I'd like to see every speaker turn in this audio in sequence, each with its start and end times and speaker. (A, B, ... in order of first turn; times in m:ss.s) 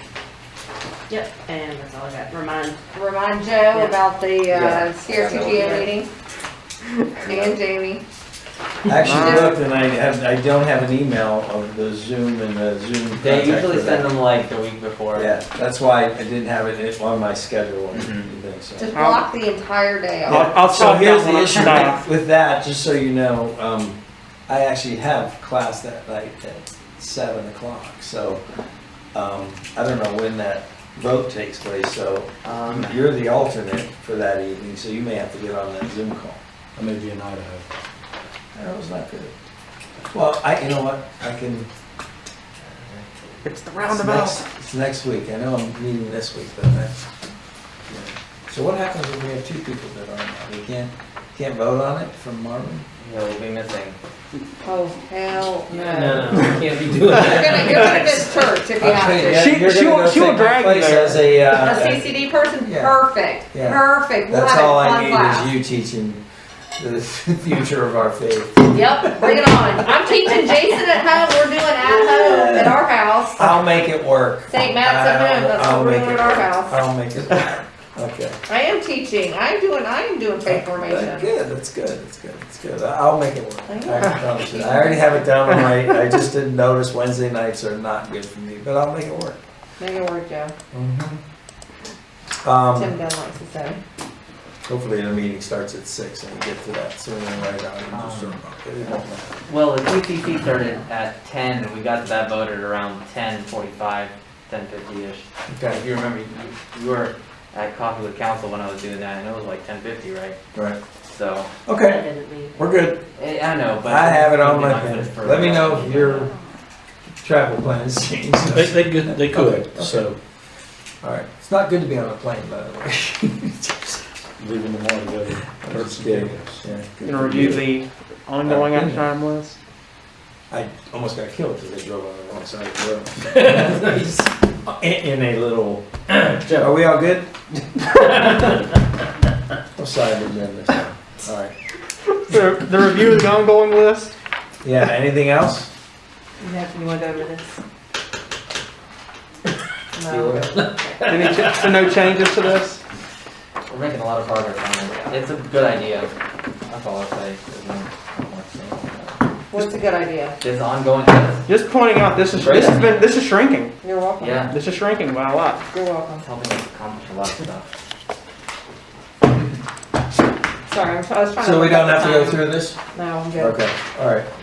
0:01.1-0:02.8 A
0:03.0-0:06.1 B
0:03.7-0:04.0 A
0:04.5-0:04.9 C
0:05.1-0:05.8 D
0:05.3-0:05.9 A
0:07.3-0:08.0 B
0:08.9-0:14.1 C
0:08.9-0:09.6 E
0:09.2-0:09.5 B
0:13.2-0:15.4 D
0:15.1-0:18.9 C
0:17.9-0:18.3 D
0:18.8-0:20.5 B
0:18.9-0:19.2 E
0:20.3-0:28.4 C
0:20.3-0:22.0 E
0:29.1-0:36.4 C
0:32.4-0:32.9 D
0:36.8-0:37.6 F
0:38.5-0:39.3 C
0:40.1-0:41.7 C
0:43.4-0:44.4 E
0:43.8-0:47.0 C
0:48.5-0:52.9 C
0:53.0-0:54.0 D
0:54.6-0:56.5 B
0:55.7-0:58.3 D
0:57.1-0:59.4 B
0:58.8-1:03.0 C
0:59.4-1:01.2 E
1:01.4-1:05.5 B
1:03.5-1:06.2 C
1:06.8-1:09.5 C
1:08.7-1:13.6 B
1:11.8-1:12.8 C
1:13.4-1:18.4 C
1:14.5-1:16.7 B
1:18.5-1:21.3 B
1:20.5-1:29.4 C
1:23.7-1:25.1 B
1:29.8-1:30.5 B
1:30.7-1:31.2 C
1:32.4-1:33.0 C
1:32.7-1:33.8 B
1:34.6-1:39.3 C
1:37.9-1:38.4 D
1:39.5-1:50.4 D
1:45.5-1:45.8 C
1:51.0-1:51.5 D
1:51.7-1:53.0 C
1:51.8-1:52.5 A
1:53.2-1:56.3 D
1:53.8-1:56.3 C
1:57.2-2:00.1 C
1:58.5-2:00.2 F
2:01.0-2:04.0 C
2:04.4-2:06.6 F
2:05.6-2:07.6 C
2:07.0-2:09.6 E
2:08.4-2:09.1 C
2:10.5-2:17.3 C
2:18.0-2:18.4 C
2:19.8-2:21.5 C
2:22.2-2:24.2 E
2:24.6-2:25.7 C
2:26.4-2:27.6 B
2:30.0-2:30.8 B
2:30.1-2:31.5 C
2:31.0-2:32.8 E
2:33.7-2:36.1 D
2:36.7-2:39.2 D
2:39.5-2:40.4 B
2:40.4-2:41.5 D
2:41.5-2:43.8 E
2:42.2-2:43.0 D
2:43.8-2:44.4 B
2:44.2-2:44.6 D
2:44.5-2:45.7 E
2:45.7-2:46.3 B
2:46.2-2:47.7 D
2:50.7-2:53.6 B
2:51.4-2:52.8 C
2:53.4-2:54.3 C